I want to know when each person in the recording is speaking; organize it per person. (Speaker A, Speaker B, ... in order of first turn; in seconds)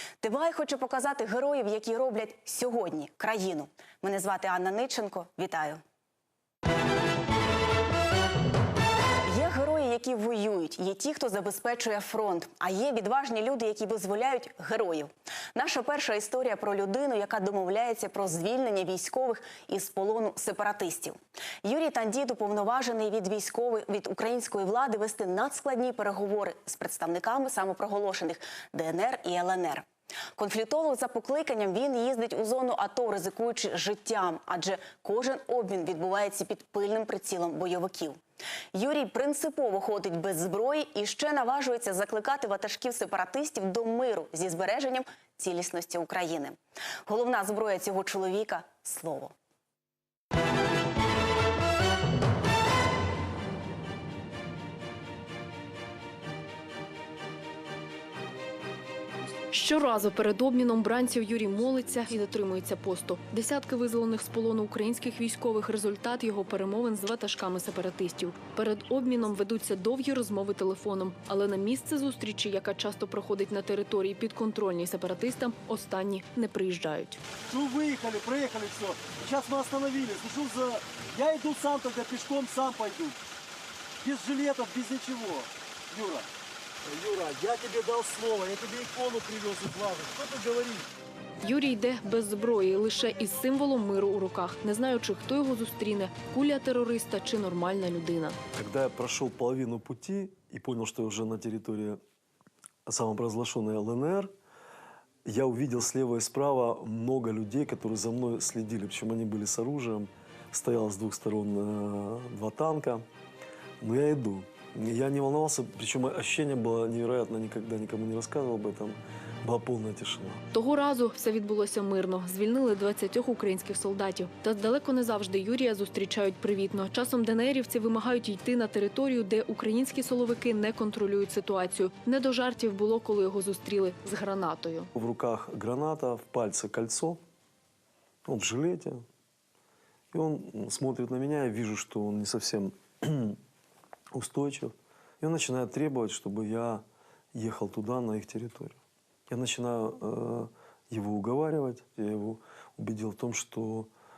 Speaker A: 0.2-5.8, 9.2-29.8, 30.4-38.2, 38.7-49.3
Speaker B: 59.5-77.2, 91.4-98.4, 120.5-134.9
Speaker C: 77.5-83.2, 84.0-86.2, 86.9-90.8
Speaker D: 98.5-102.0, 102.8-104.3, 105.2-113.0, 113.8-120.4, 134.9-137.2, 138.2-139.0, 140.1-143.4, 144.1-148.8, 149.3-153.9